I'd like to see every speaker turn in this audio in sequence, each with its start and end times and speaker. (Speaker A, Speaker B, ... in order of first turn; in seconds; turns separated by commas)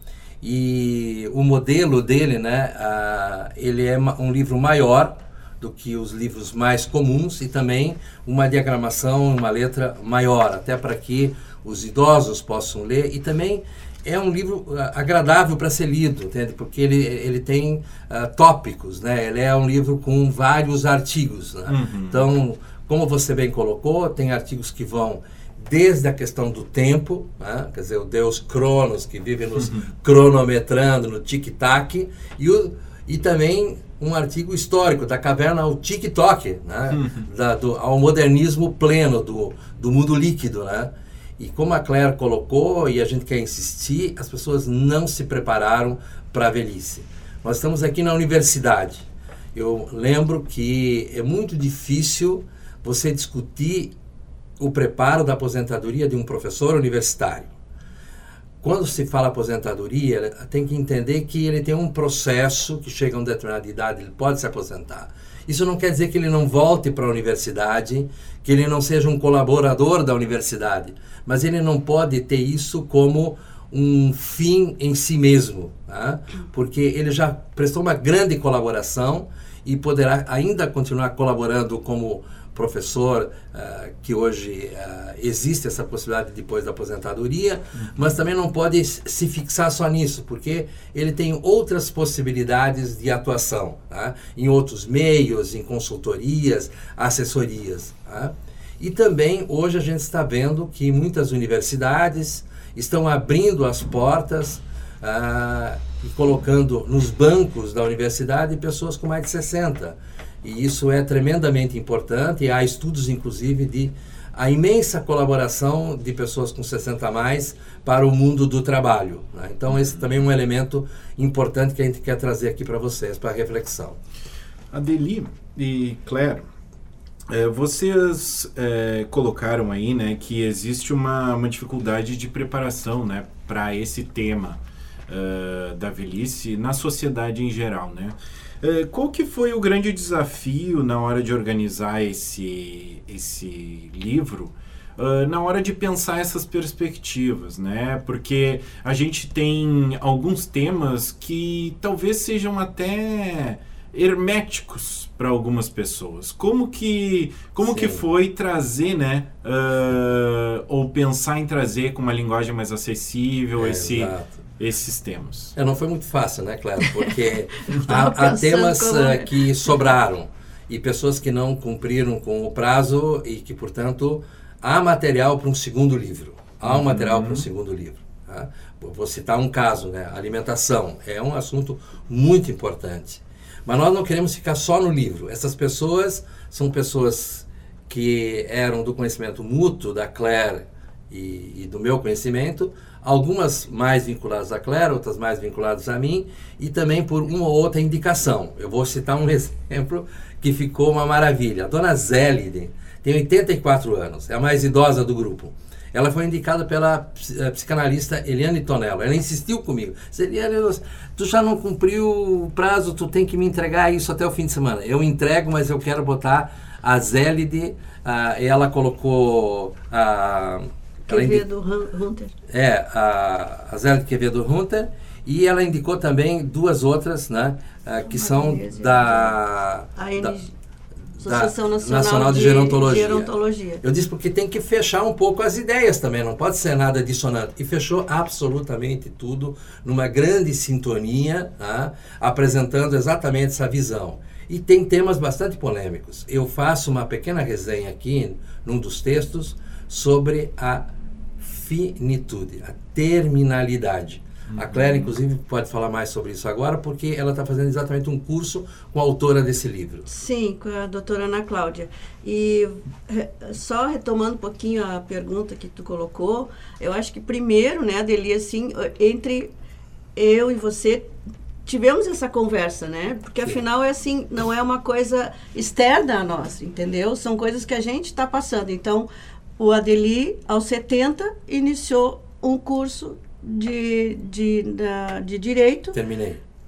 Speaker A: 0.4-53.9, Speaker B: 21.7-22.3, Speaker B: 29.6-29.9, Speaker B: 36.9-37.3, Speaker A: 54.6-57.5, Speaker A: 58.6-124.0, Speaker B: 124.7-126.4, Speaker B: 127.3-165.5, Speaker A: 157.6-158.1, Speaker A: 163.6-164.4, Speaker A: 165.5-221.4, Speaker C: 167.7-169.4, Speaker B: 176.7-177.4, Speaker C: 221.1-222.3, Speaker A: 222.5-230.3, Speaker C: 228.1-229.3, Speaker C: 229.9-230.5, Speaker C: 231.2-233.8, Speaker A: 231.2-250.8, Speaker A: 251.4-260.1, Speaker B: 254.5-255.1, Speaker C: 260.1-269.5, Speaker C: 270.1-271.1, Speaker C: 271.6-286.0, Speaker A: 285.9-286.4